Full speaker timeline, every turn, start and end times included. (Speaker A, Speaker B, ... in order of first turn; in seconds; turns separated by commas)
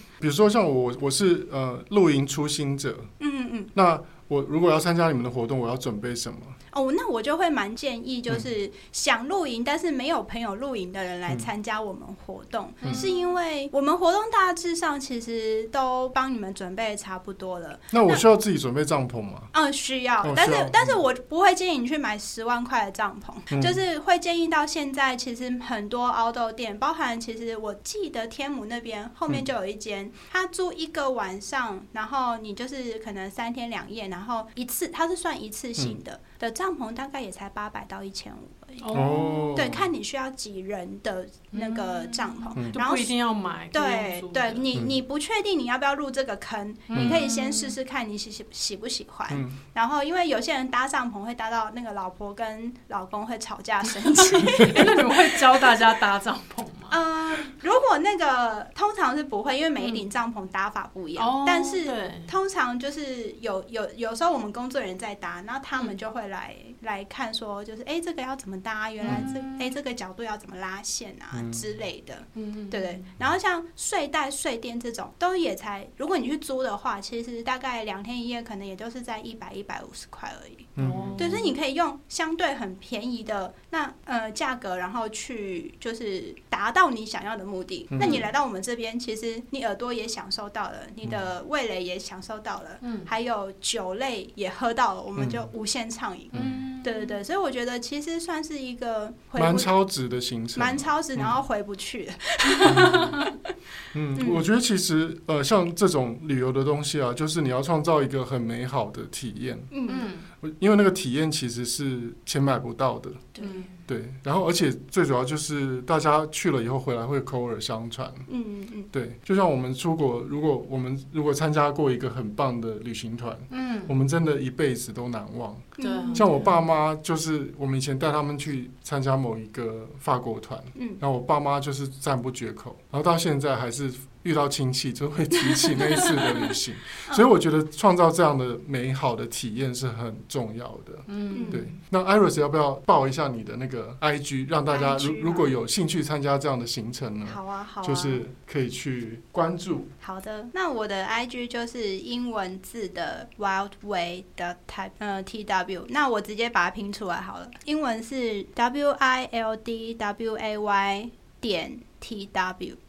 Speaker A: 0.2-3.1, Speaker B: 3.2-3.7, Speaker A: 3.7-6.6, Speaker B: 6.7-18.2, Speaker C: 12.8-13.3, Speaker A: 17.9-19.5, Speaker B: 19.5-39.0, Speaker A: 20.2-21.0, Speaker A: 23.5-23.8, Speaker C: 38.8-39.7, Speaker A: 38.9-39.9, Speaker B: 39.5-43.1, Speaker C: 41.5-44.6, Speaker B: 43.7-55.7, Speaker C: 46.9-47.8, Speaker A: 46.9-47.2, Speaker A: 49.3-49.6, Speaker C: 54.3-57.0, Speaker B: 56.9-99.7, Speaker C: 61.1-62.3, Speaker C: 69.0-69.8, Speaker A: 71.3-71.7, Speaker C: 72.3-73.0, Speaker A: 80.8-81.3, Speaker C: 80.8-81.6, Speaker A: 87.9-88.2, Speaker C: 88.0-88.2, Speaker C: 92.8-93.1, Speaker A: 95.2-95.5, Speaker A: 96.3-96.6, Speaker C: 96.3-97.2, Speaker A: 99.3-101.3, Speaker B: 100.5-103.4, Speaker A: 102.6-103.2, Speaker C: 102.7-103.2, Speaker A: 103.9-109.7, Speaker B: 104.2-104.4, Speaker B: 109.7-110.1, Speaker C: 109.9-110.3, Speaker A: 110.4-113.3, Speaker B: 113.3-113.7, Speaker C: 113.4-113.8, Speaker A: 113.9-118.3, Speaker B: 118.3-118.9, Speaker A: 118.9-149.9, Speaker C: 123.5-123.9, Speaker B: 125.8-126.3, Speaker C: 125.8-126.5, Speaker B: 130.7-131.0, Speaker B: 135.7-136.0, Speaker C: 136.0-136.6, Speaker C: 141.1-141.8, Speaker B: 141.3-141.6, Speaker B: 144.7-145.5, Speaker B: 147.2-148.2, Speaker B: 150.0-162.8